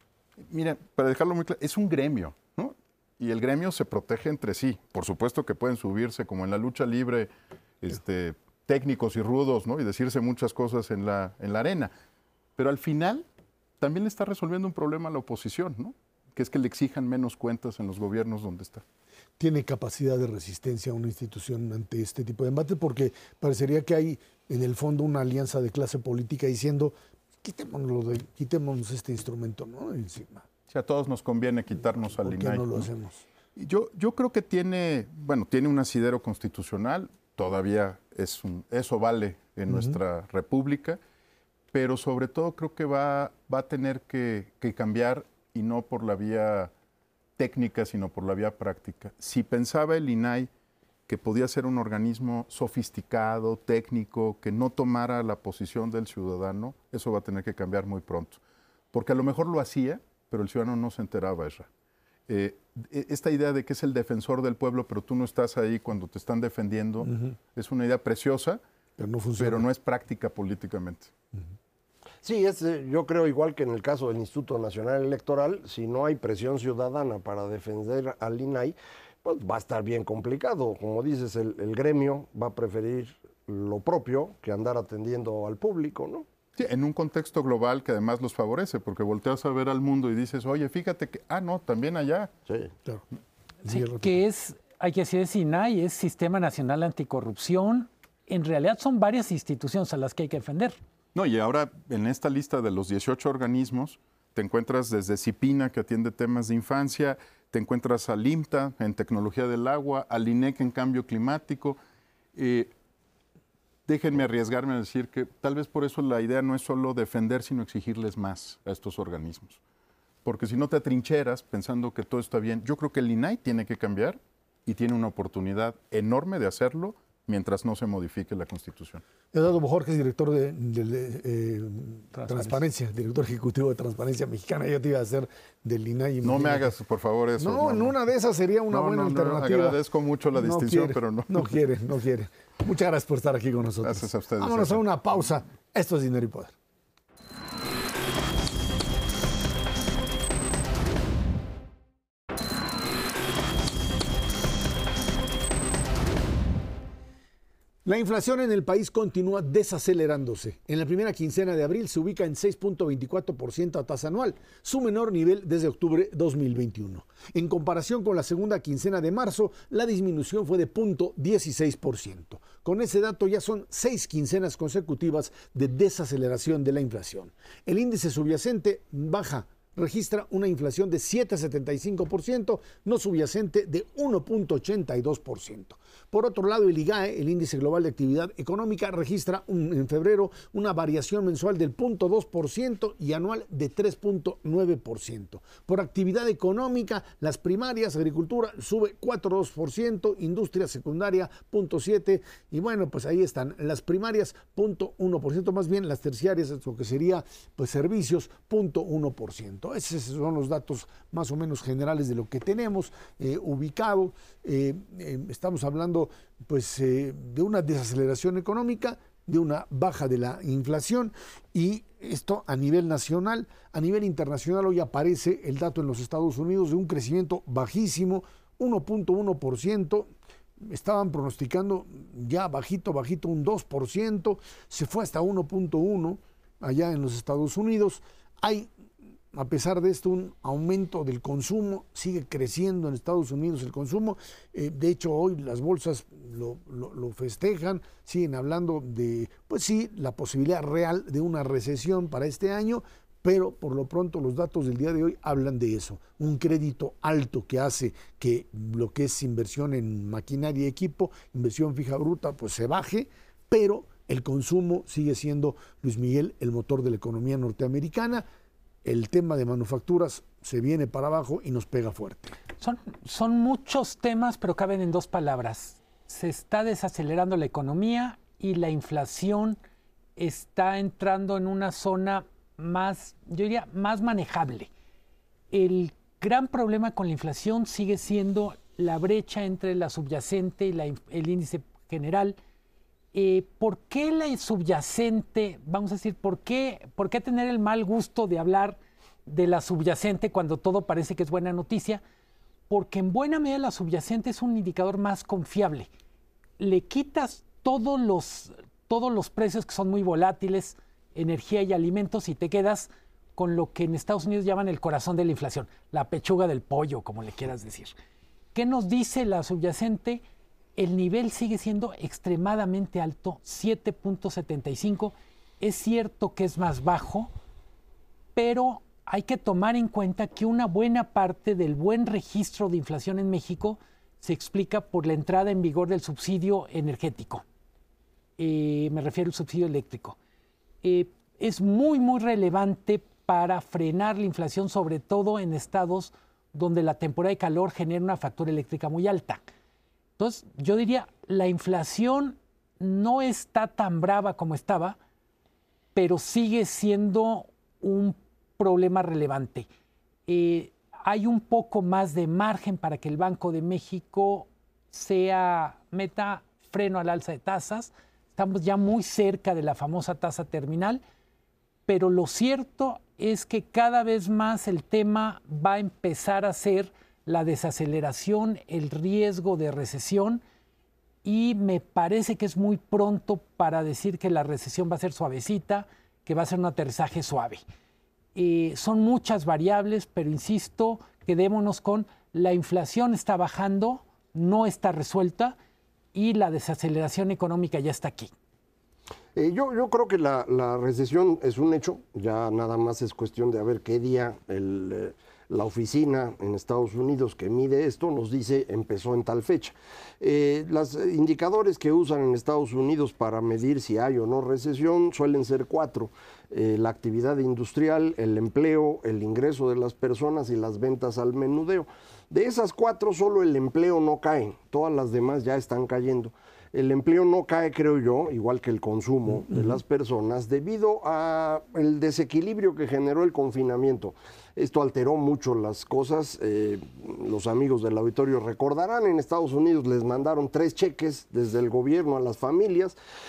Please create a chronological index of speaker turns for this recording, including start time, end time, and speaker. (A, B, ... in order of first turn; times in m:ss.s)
0:00.5-0:07.3 A
0:07.8-0:11.9 A
0:12.6-0:13.2 A
0:13.8-0:18.8 A
0:19.4-0:30.5 B
0:30.7-0:32.9 A
0:32.2-0:33.2 B
0:33.6-0:41.0 A
0:41.7-0:46.7 A
0:47.4-0:50.5 A
0:51.1-0:58.4 A
0:58.9-1:01.7 A
1:02.3-1:08.6 A
1:09.0-1:09.6 B
1:09.4-1:11.1 A
1:12.2-1:26.2 C
1:26.6-1:32.3 A
1:33.6-1:34.2 B
1:33.7-1:40.8 D
1:41.1-1:51.8 A
1:52.4-1:52.7 A
1:53.9-1:59.6 A
2:00.2-2:09.0 A
2:09.3-2:16.7 B
2:16.2-2:18.0 A
2:17.4-2:19.8 B
2:18.7-2:21.5 A
2:20.3-2:26.5 B
2:23.8-2:24.8 A
2:37.8-3:50.1 B
3:50.6-3:58.7 B
3:59.3-4:28.2 B
4:28.8-4:32.4 B
4:32.6-4:39.6 D
4:40.2-4:44.7 D
4:45.5-4:52.4 D
4:53.1-5:02.0 D
5:02.7-5:05.9 D
5:06.6-5:18.0 D
5:18.5-5:20.2 D
5:20.8-5:27.3 D
5:28.3-5:37.4 D
5:38.4-5:40.2 D
5:40.8-5:49.5 D
5:50.2-5:55.0 D
5:56.0-5:59.7 D
6:00.3-6:11.0 D
6:11.9-6:20.4 D
6:21.2-6:27.6 D
6:28.3-6:35.6 D
6:36.1-6:38.3 D
6:39.3-7:23.0 C